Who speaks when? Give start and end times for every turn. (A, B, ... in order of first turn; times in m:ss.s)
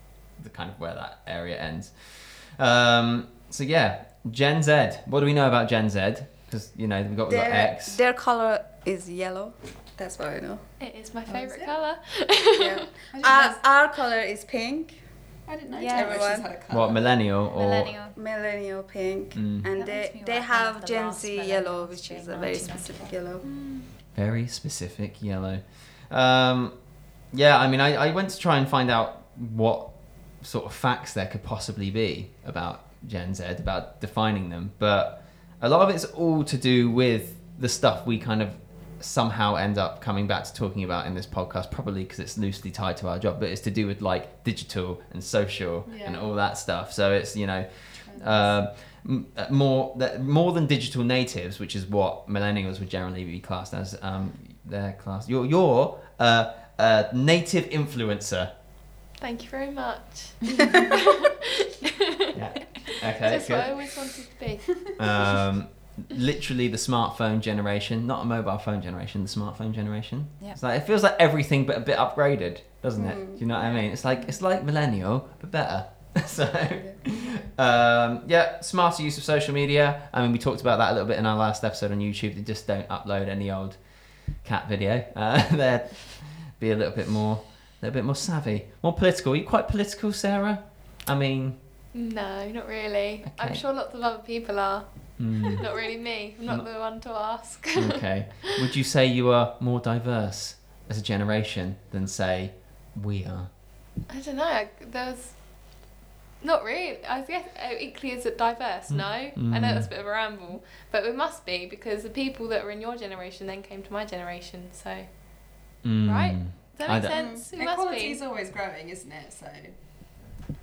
0:00.4-0:08.0 A
0:07.3-0:10.7 B
0:10.8-0:12.8 C
0:11.3-0:11.8 D
0:12.6-0:15.0 B
0:13.0-0:13.6 D
0:15.5-0:17.2 D
0:15.8-0:16.3 E
0:15.9-0:16.5 B
0:16.7-0:18.0 A
0:17.5-0:18.2 E
0:18.2-0:23.4 B
0:19.3-0:19.7 A
0:19.7-0:23.9 E
0:24.2-0:26.8 A
0:27.3-0:58.5 A
0:45.8-0:46.4 D
0:47.9-0:48.6 D
0:59.2-1:01.3 C
1:02.3-1:03.7 A
1:02.8-1:04.9 C
1:05.0-1:23.8 A
1:13.0-1:13.5 B
1:24.3-1:31.6 A
1:31.9-1:38.6 C
1:33.2-1:33.6 A
1:35.2-1:35.6 A
1:36.4-1:36.7 A
1:37.7-1:43.5 A
1:44.1-1:58.2 C
1:48.9-1:49.9 A
1:55.8-1:57.3 A
1:57.1-1:57.5 B
1:57.5-1:59.8 D